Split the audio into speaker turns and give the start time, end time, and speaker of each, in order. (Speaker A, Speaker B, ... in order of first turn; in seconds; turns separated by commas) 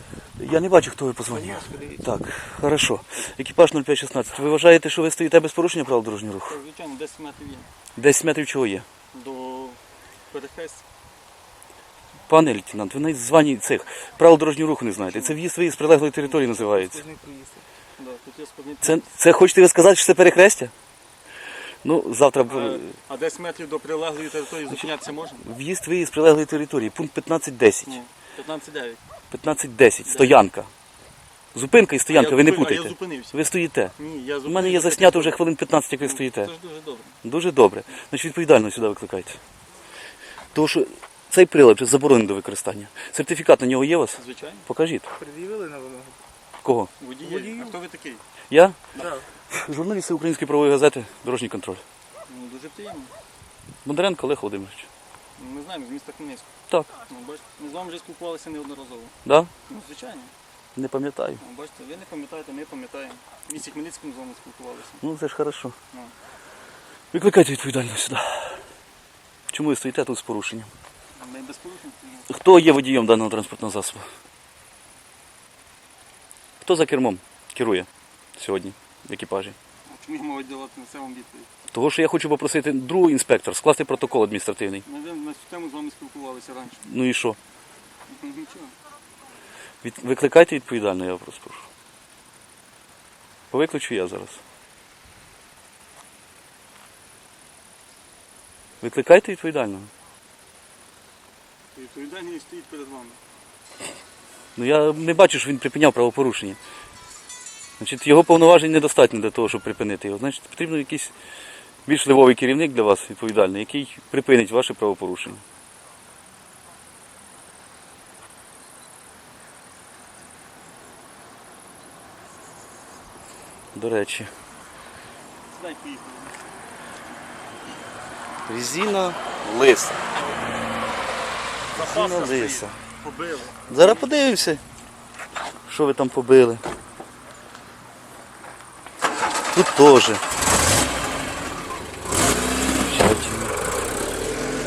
Speaker A: 0.4-6.6, Speaker B: 1.3-2.2, Speaker C: 6.5-7.7, Speaker A: 8.0-8.8, Speaker C: 9.1-9.8, Speaker C: 10.3-10.8, Speaker A: 12.3-17.0, Speaker C: 15.1-15.4, Speaker B: 16.6-17.6, Speaker C: 18.0-19.0, Speaker A: 18.8-20.7, Speaker A: 21.8-22.9, Speaker C: 22.5-25.4, Speaker A: 25.4-28.0, Speaker C: 27.9-29.0, Speaker A: 29.3-30.7, Speaker C: 30.1-30.4, Speaker A: 31.5-33.9, Speaker C: 32.1-33.4, Speaker C: 34.0-35.4, Speaker A: 34.4-36.5, Speaker C: 36.0-37.1, Speaker A: 37.2-39.4, Speaker A: 40.5-45.1, Speaker C: 44.1-44.7, Speaker B: 45.1-46.2, Speaker A: 46.6-46.9, Speaker C: 47.0-48.2, Speaker B: 47.2-47.8, Speaker A: 48.5-48.8, Speaker B: 49.0-49.2, Speaker A: 49.5-51.8, Speaker C: 52.3-53.1, Speaker A: 53.8-54.9, Speaker C: 55.4-59.1, Speaker A: 59.2-59.5, Speaker C: 59.6-60.3, Speaker A: 60.7-61.4, Speaker C: 61.4-65.0, Speaker A: 65.0-65.7, Speaker A: 67.1-68.6, Speaker A: 69.5-70.7, Speaker C: 71.2-72.3, Speaker A: 72.3-74.0, Speaker A: 76.6-79.5, Speaker C: 79.9-81.5, Speaker A: 81.7-84.8, Speaker C: 84.8-86.8, Speaker A: 86.8-87.4, Speaker C: 88.1-88.8, Speaker A: 89.8-91.7, Speaker A: 93.5-94.4, Speaker A: 98.8-99.9, Speaker C: 101.7-103.2, Speaker A: 104.5-106.6, Speaker A: 107.8-111.1, Speaker A: 111.8-115.4, Speaker A: 123.7-124.3, Speaker C: 125.5-126.4, Speaker A: 128.5-130.0, Speaker C: 131.7-134.1, Speaker A: 131.7-132.8, Speaker A: 133.7-134.6, Speaker A: 135.7-136.6, Speaker A: 139.5-140.2, Speaker A: 142.8-143.6